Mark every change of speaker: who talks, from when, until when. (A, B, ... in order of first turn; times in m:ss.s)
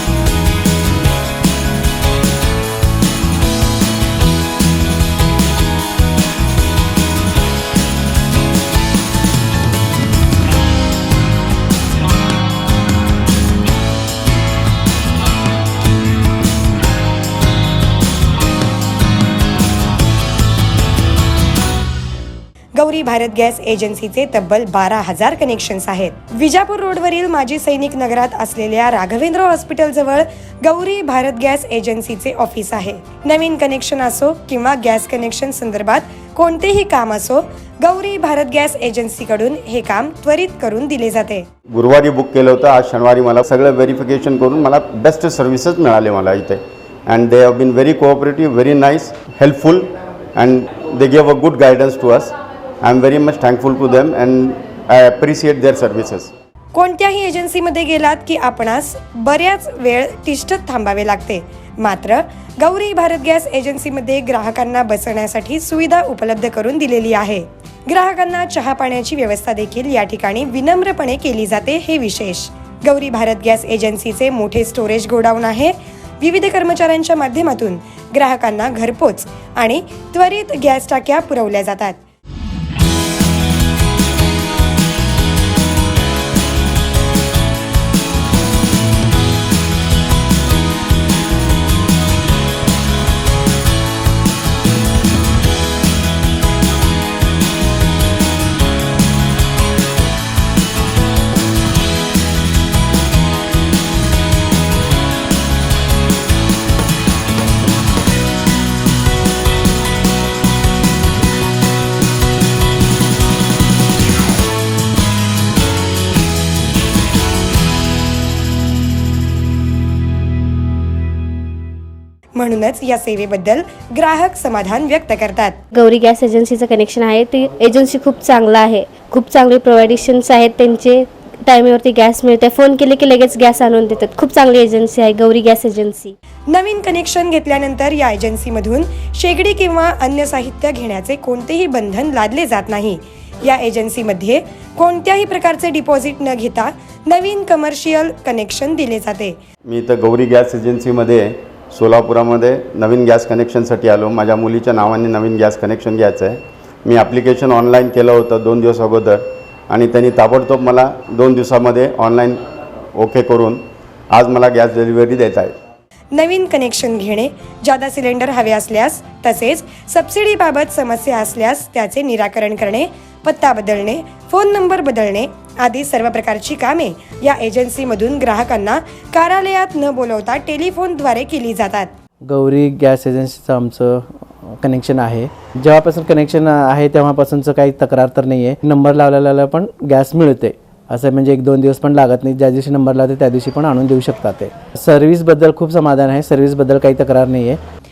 0:22.8-0:41.5 A
0:41.7-0:52.3 B
0:52.8-0:56.3 B
0:56.7-1:22.0 A
2:02.4-2:05.6 A
2:05.7-2:16.1 C
2:16.5-2:29.4 A
2:29.7-2:42.4 B
2:43.0-2:45.6 B
2:46.1-3:01.9 A
3:02.2-3:17.6 D